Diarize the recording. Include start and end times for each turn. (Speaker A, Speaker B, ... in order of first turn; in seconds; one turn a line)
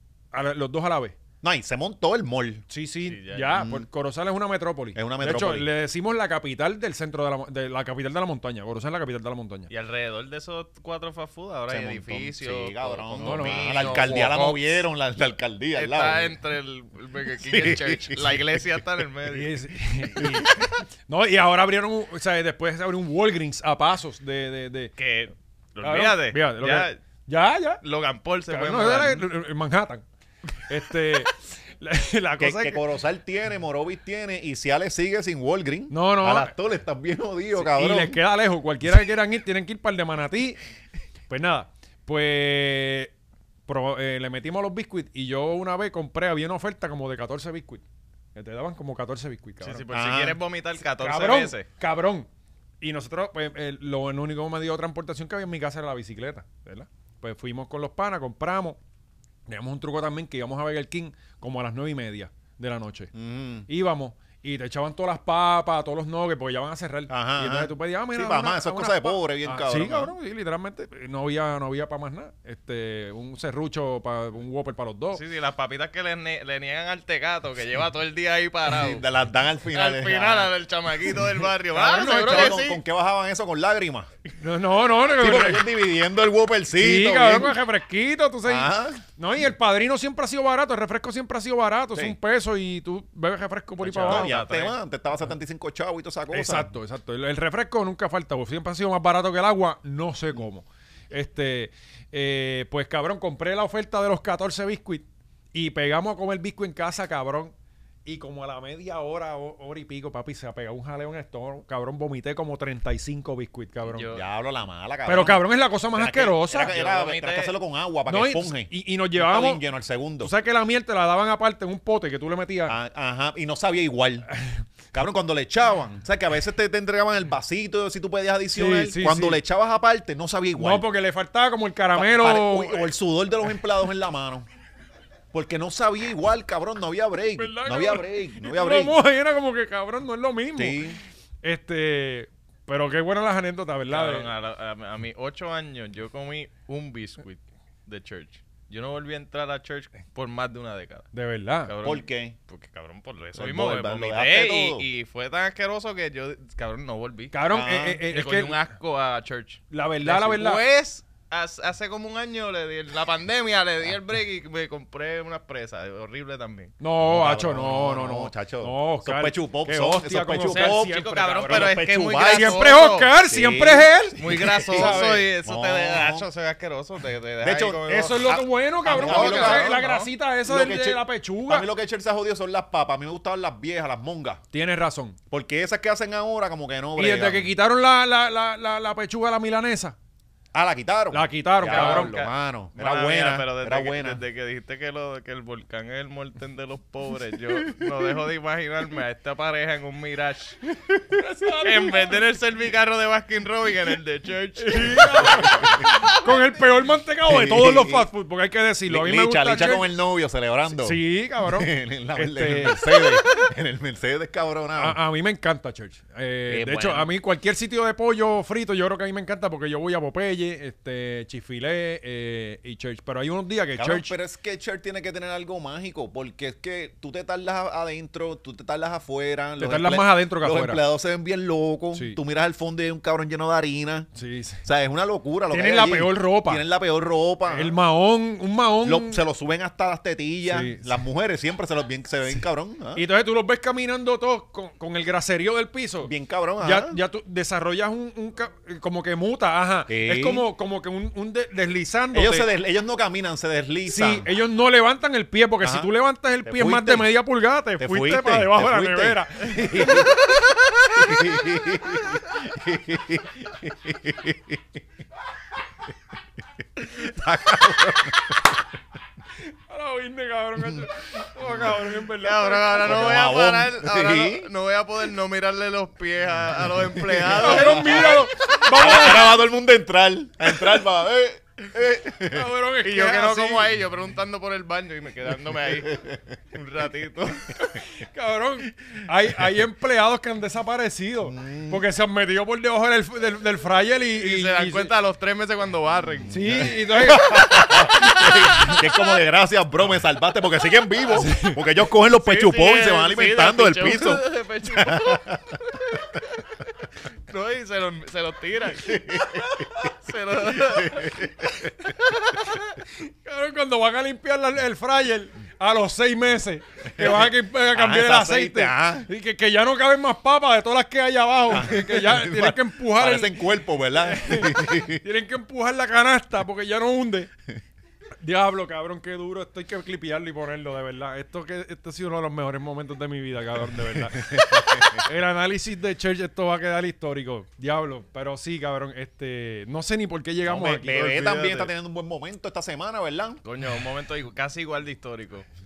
Speaker A: 0.3-1.1
Speaker B: 1.4-2.6
Speaker A: 2.7-9.7
Speaker C: 3.0-3.6
Speaker B: 3.5-3.9
Speaker B: 4.9-5.7
Speaker C: 9.7-14.9
Speaker B: 11.7-16.3
Speaker A: 13.2-14.2
Speaker C: 15.7-19.5
Speaker B: 17.4-18.3
Speaker A: 19.3-24.9
Speaker B: 20.2-20.7
Speaker C: 25.0-27.0
Speaker A: 25.8-27.8
Speaker C: 27.8-29.2
Speaker A: 28.5-30.0
Speaker A: 30.7-32.8
Speaker B: 32.4-38.2
Speaker A: 35.9-36.5
Speaker A: 37.5-40.6
Speaker A: 41.3-43.1
Speaker A: 43.7-47.8
Speaker A: 48.3-49.9
Speaker C: 49.6-51.6
Speaker B: 49.9-50.4
Speaker A: 51.0-52.3
Speaker A: 52.8-58.8
Speaker A: 59.5-63.1
Speaker B: 63.1-63.7
Speaker A: 63.7-75.2
Speaker B: 67.1-70.1
Speaker C: 75.1-79.0
Speaker B: 78.7-80.5
Speaker C: 79.7-82.8
Speaker B: 81.7-84.1
Speaker A: 81.8-82.6
Speaker A: 84.4-85.7
Speaker B: 85.1-87.5
Speaker A: 86.8-94.4
Speaker B: 88.4-89.0
Speaker C: 93.8-94.8
Speaker B: 94.0-96.7
Speaker A: 96.3-107.5
Speaker A: 108.0-114.1
Speaker C: 113.8-114.2
Speaker B: 114.1-115.4
Speaker A: 115.0-116.7
Speaker B: 115.9-120.3
Speaker C: 116.5-117.5
Speaker A: 118.1-119.6
Speaker A: 120.2-122.7
Speaker B: 122.7-124.3
Speaker B: 124.9-130.8
Speaker A: 128.5-129.4
Speaker A: 130.6-132.9
Speaker B: 131.9-134.4
Speaker B: 135.3-139.0
Speaker A: 137.3-140.8
Speaker B: 140.6-141.0
Speaker A: 141.4-144.3
Speaker C: 143.9-151.1
Speaker A: 151.1-151.7
Speaker C: 151.7-157.3
Speaker B: 151.8-152.3
Speaker B: 153.4-154.8
Speaker A: 157.3-158.6
Speaker B: 157.5-158.0
Speaker C: 158.1-166.7
Speaker A: 159.7-160.6
Speaker A: 166.8-175.3
Speaker B: 167.0-172.7
Speaker C: 170.4-173.1
Speaker B: 173.3-176.2
Speaker C: 174.2-178.3
Speaker B: 177.4-179.8
Speaker A: 177.9-181.7
Speaker C: 178.8-180.1
Speaker B: 180.4-184.4
Speaker A: 184.5-185.2
Speaker B: 185.3-187.5
Speaker A: 187.0-189.9
Speaker B: 190.5-194.2
Speaker A: 191.1-192.2
Speaker C: 191.6-200.6
Speaker A: 201.1-202.2
Speaker C: 201.6-206.2
Speaker A: 204.6-209.9
Speaker B: 205.2-205.8
Speaker B: 207.2-208.1
Speaker B: 208.9-215.0
Speaker A: 210.7-213.0
Speaker A: 214.8-224.1
Speaker B: 216.5-217.1
Speaker B: 223.8-234.1
Speaker A: 229.6-230.8
Speaker A: 231.9-232.2
Speaker A: 234.1-234.6
Speaker B: 234.6-237.8
Speaker A: 235.5-236.6
Speaker A: 237.5-239.2
Speaker B: 238.8-243.0
Speaker A: 240.5-240.9
Speaker A: 242.9-252.5
Speaker B: 246.0-247.0
Speaker B: 249.9-250.4
Speaker B: 252.1-254.3
Speaker A: 253.9-260.1
Speaker B: 255.6-255.9
Speaker B: 256.4-257.1
Speaker B: 257.8-264.6
Speaker B: 266.8-268.4
Speaker A: 269.7-273.1
Speaker C: 272.2-278.2
Speaker B: 272.8-274.5
Speaker B: 276.7-282.5
Speaker A: 277.4-279.4
Speaker A: 282.3-283.7
Speaker C: 282.8-287.5
Speaker A: 287.6-294.9
Speaker B: 291.2-291.8
Speaker C: 294.2-296.3
Speaker A: 296.3-297.9
Speaker B: 296.3-305.4
Speaker C: 297.9-299.0
Speaker A: 301.1-301.6
Speaker C: 302.1-306.1
Speaker C: 307.3-309.0
Speaker B: 308.8-309.9
Speaker C: 310.0-311.3
Speaker B: 310.5-311.9
Speaker C: 312.0-312.7
Speaker A: 313.0-323.4
Speaker B: 316.9-319.1
Speaker B: 321.5-325.0
Speaker A: 324.0-327.3
Speaker A: 328.2-341.3
Speaker B: 334.2-335.1
Speaker B: 340.4-343.4
Speaker C: 341.1-341.7
Speaker C: 343.4-345.4